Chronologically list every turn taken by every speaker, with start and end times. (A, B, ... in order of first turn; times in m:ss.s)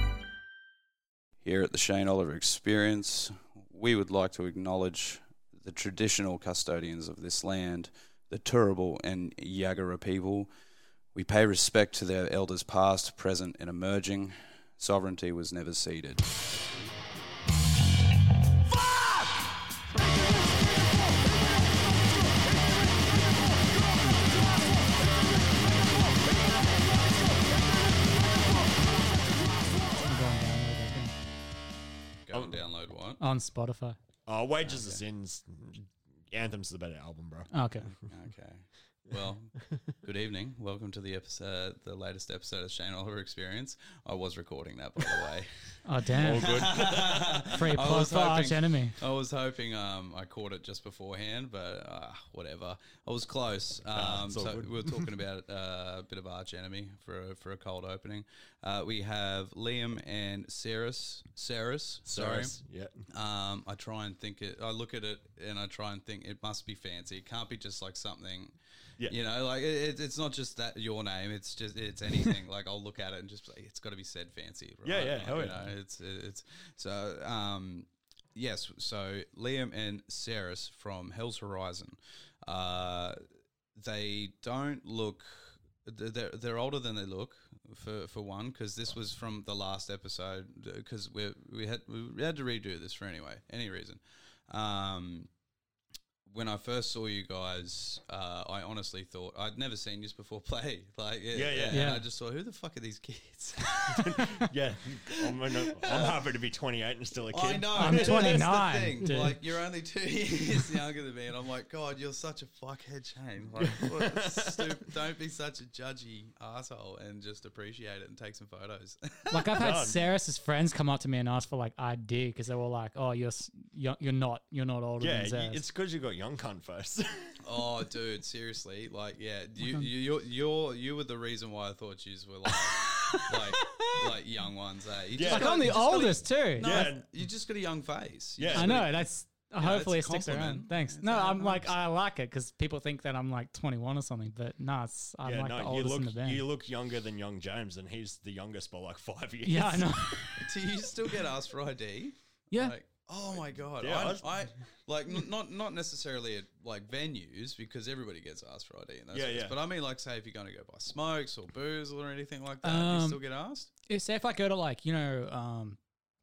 0:01.4-0:10.5 A
0:11.1-0:16.3 A
0:29.9-0:31.1 B
0:32.2-0:33.2 A
0:33.2-0:34.0 B
0:34.3-0:38.1 C
0:34.6-0:35.0 A
0:37.5-0:37.9 B
0:38.1-1:02.6 A
0:45.8-0:46.6 B
0:46.2-0:47.6 C
0:47.5-0:49.0 B
0:53.9-0:55.1 C
1:02.0-1:03.0 C
1:03.1-1:08.6 A
1:09.1-1:23.2 A
1:14.8-1:15.7 C
1:23.8-1:35.3 A
1:36.2-1:44.2 A
1:41.3-1:41.9 C
1:41.7-1:42.0 B
1:43.9-1:48.5 C
1:45.3-1:46.2 A
1:47.3-1:59.6 A
1:47.8-1:49.4 B
1:53.6-1:54.8 C
1:59.3-2:05.6 B
1:59.6-2:00.0 C
2:05.0-2:07.3 C
2:07.4-2:21.7 A
2:13.1-2:13.9 B
2:15.2-2:16.0 C
2:15.3-2:16.7 B
2:16.6-2:17.1 C
2:18.4-2:18.9 C
2:18.6-2:26.4 B
2:25.2-2:29.9 C
2:29.5-2:30.4 B
2:30.4-2:43.7 A
2:33.8-2:34.5 C
2:39.1-2:39.6 C
2:42.6-2:43.2 B
2:43.9-2:45.8 B